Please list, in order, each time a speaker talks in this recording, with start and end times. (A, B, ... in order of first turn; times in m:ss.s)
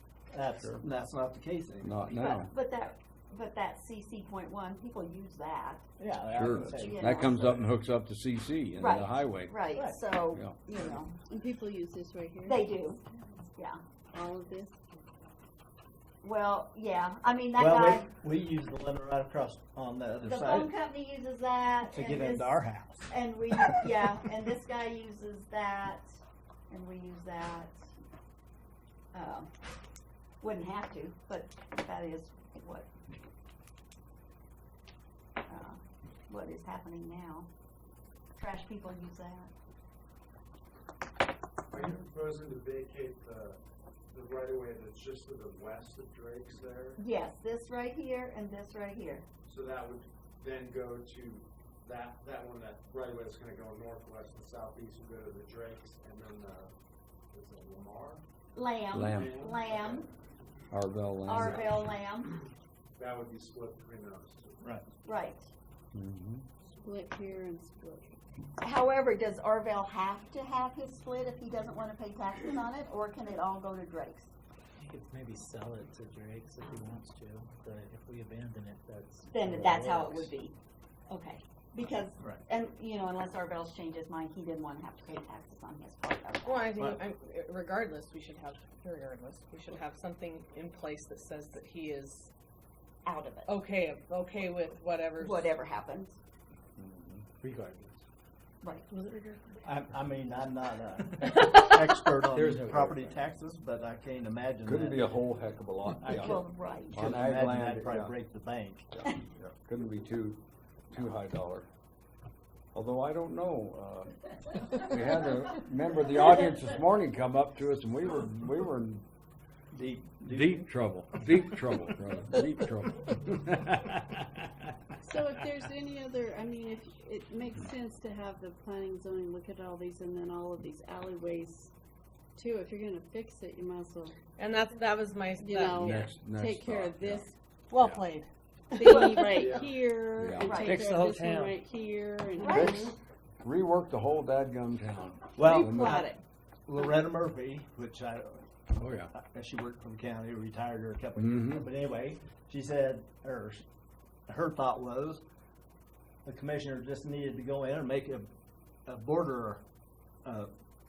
0:00.3-0:02.0 A
0:01.8-0:02.5 B
0:02.1-0:05.8 C
0:06.0-0:07.7 A
0:06.3-0:09.6 B
0:06.8-0:07.4 C
0:08.8-0:11.1 C
0:10.3-0:10.6 B
0:11.1-0:12.7 D
0:12.4-0:13.0 C
0:14.1-0:14.7 D
0:16.2-0:18.1 C
0:17.5-0:20.7 A
0:20.2-0:22.6 C
0:21.8-0:23.8 A
0:23.1-0:26.1 C
0:26.7-0:27.9 C
0:29.1-0:29.5 C
0:30.4-0:32.9 C
0:35.5-0:37.5 C
0:38.4-0:39.5 C
0:41.7-0:43.6 E
0:44.1-0:47.0 E
0:47.0-0:49.3 C
0:49.4-0:56.7 E
0:57.3-0:58.2 E
0:58.5-1:00.1 C
0:58.9-0:59.4 B
0:59.1-1:00.0 E
1:00.7-1:01.7 B
1:01.2-1:02.4 C
1:01.3-1:01.7 E
1:03.0-1:04.8 E
1:05.0-1:05.5 C
1:05.9-1:06.4 B
1:06.8-1:08.2 D
1:08.6-1:14.3 C
1:14.8-1:20.3 F
1:19.3-1:20.5 C
1:21.1-1:26.8 C
1:26.4-1:32.3 G
1:33.0-1:33.5 C
1:33.4-1:35.5 G
1:35.2-1:36.2 C
1:36.8-1:37.3 B
1:37.4-1:38.0 E
1:38.9-1:39.6 G
1:39.6-1:45.1 A
1:42.3-1:43.2 B
1:44.6-1:48.1 B
1:46.0-1:46.4 A
1:46.2-1:47.1 C
1:46.9-1:48.9 A
1:48.9-1:51.7 B
1:52.7-1:59.0 B
1:59.7-2:00.6 A
2:00.3-2:04.2 B
2:01.2-2:01.6 A
2:05.0-2:11.7 D
2:12.4-2:14.2 D
2:14.4-2:16.1 G
2:15.4-2:17.3 D
2:15.7-2:18.0 B
2:17.7-2:19.5 G
2:18.7-2:22.9 D
2:19.4-2:19.6 E
2:20.2-2:20.6 B
2:20.4-2:20.9 C
2:20.6-2:21.5 F
2:22.4-2:22.9 C
2:22.5-2:22.9 G
2:23.4-2:26.1 B
2:25.4-2:26.1 A
2:25.4-2:26.2 C
2:26.7-2:28.4 A
2:28.7-2:29.1 B
2:29.1-2:33.6 A
2:31.2-2:31.7 B
2:34.3-2:35.2 A
2:36.2-2:38.3 A
2:38.8-2:39.6 A
2:40.2-2:40.5 A